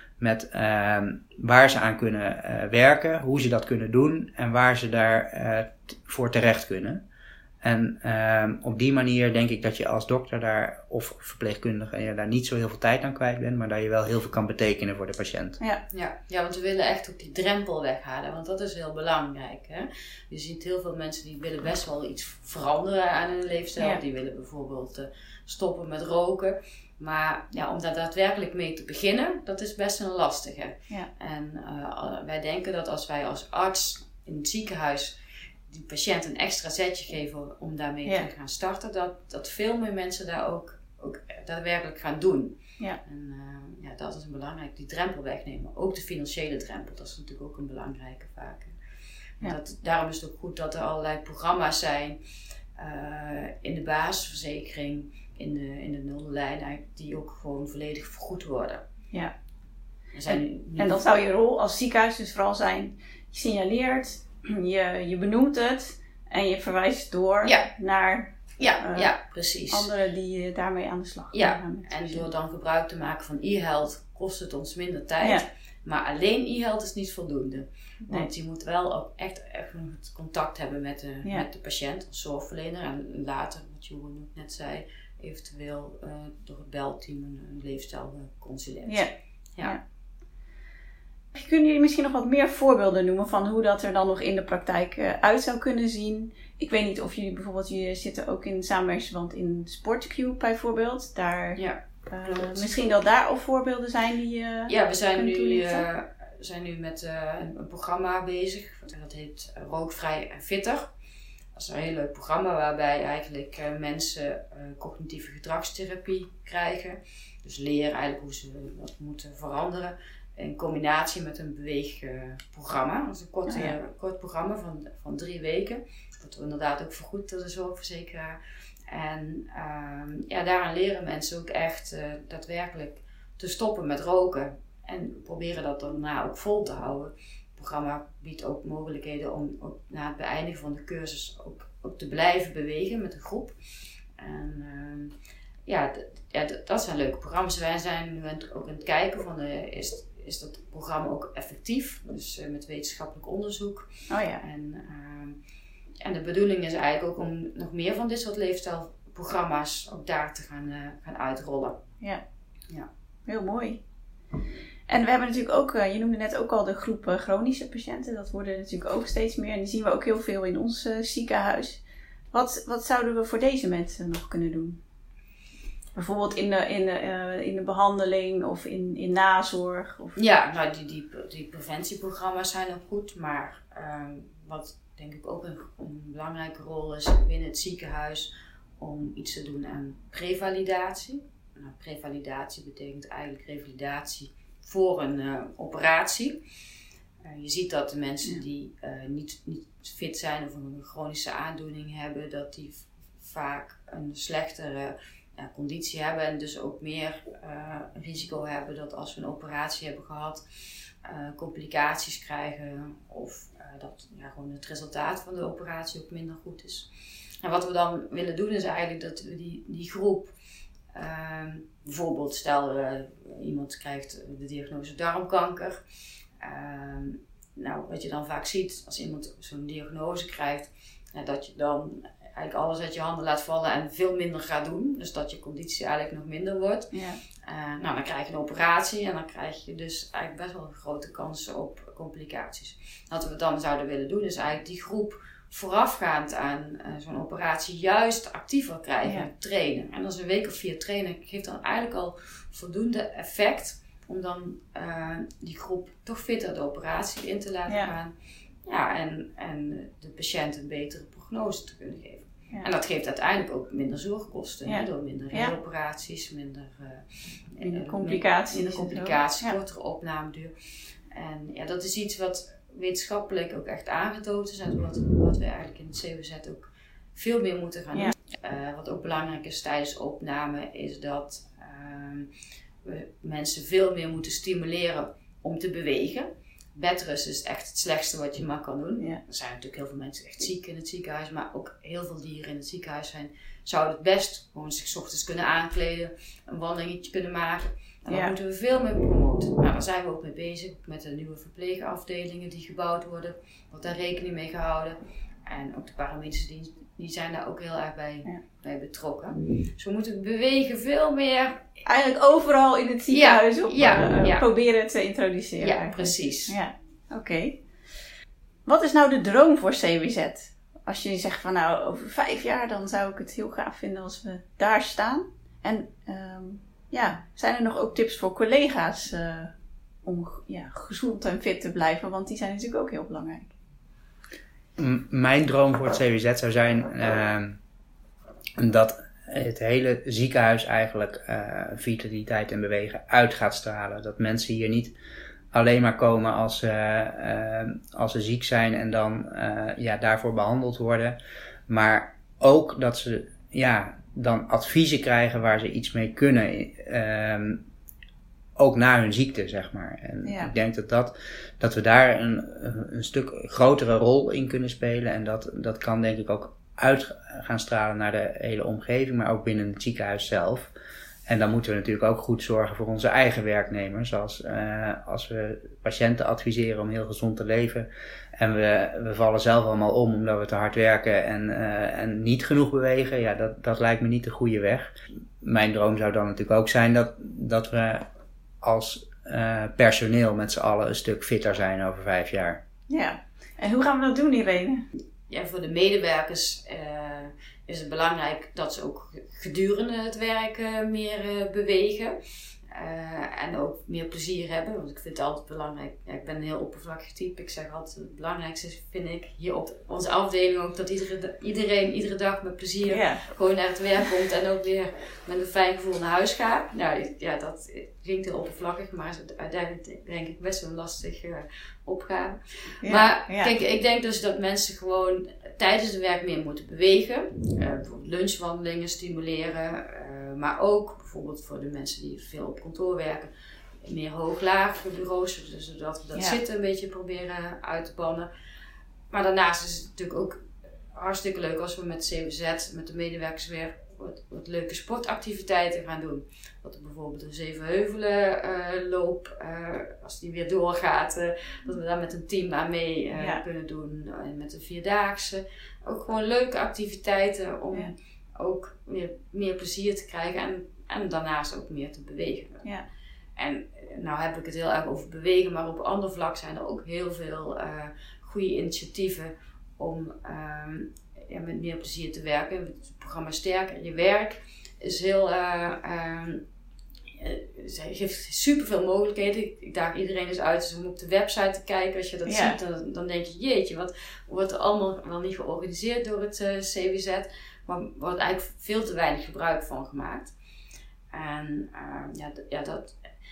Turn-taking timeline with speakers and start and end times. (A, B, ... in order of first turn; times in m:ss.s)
0:00.2-0:07.0 A
0:07.6-0:15.6 A
0:15.9-0:35.2 B
0:35.7-0:48.8 B
0:49.4-0:52.2 B
0:52.8-0:58.8 B
1:00.1-1:01.0 B
1:00.3-1:09.1 C
1:08.6-1:09.9 B
1:09.7-1:12.3 C
1:11.3-1:29.8 B
1:15.2-1:15.4 C
1:28.9-1:29.8 C
1:31.3-1:45.8 C
1:41.6-1:42.8 B
1:44.7-1:50.9 B
1:51.5-2:23.6 B
2:03.5-2:03.8 C
2:24.2-2:25.1 B
2:25.6-2:35.4 B
2:34.1-2:34.4 C
2:36.0-2:41.8 B
2:43.2-2:43.8 C
2:44.9-2:54.8 C
2:55.9-3:00.2 C
3:00.2-3:16.4 B
3:17.2-3:30.4 B
3:31.0-3:36.9 B
3:37.4-3:40.3 B
3:40.9-3:45.8 B
3:46.4-3:56.9 B
3:56.9-3:57.2 C
3:57.4-4:18.1 B
4:17.7-4:17.9 C
4:18.6-4:30.5 B
4:24.6-4:25.5 C
4:27.6-4:29.6 C
4:31.1-4:42.3 B
4:42.8-5:11.8 B
4:58.1-4:58.3 C
5:11.8-5:17.6 C
5:13.1-5:14.4 B
5:15.6-5:16.6 B
5:18.6-5:29.5 C
5:30.0-5:33.5 C
5:34.8-5:37.6 A
5:38.6-5:44.9 A
5:45.5-5:51.2 A
5:51.7-5:57.6 A
5:58.6-6:10.7 A
6:00.2-6:00.5 C
6:11.3-6:28.0 A
6:28.6-6:32.6 A
6:32.9-6:34.8 C
6:35.3-7:13.3 B
6:52.9-6:53.3 C
7:02.8-7:03.5 C
7:13.8-7:18.3 B
7:16.1-7:16.4 C
7:19.1-7:42.7 B
7:33.2-7:33.4 C
7:43.4-7:56.4 B
7:57.2-8:10.3 B
8:02.2-8:02.6 C
8:11.1-8:13.0 B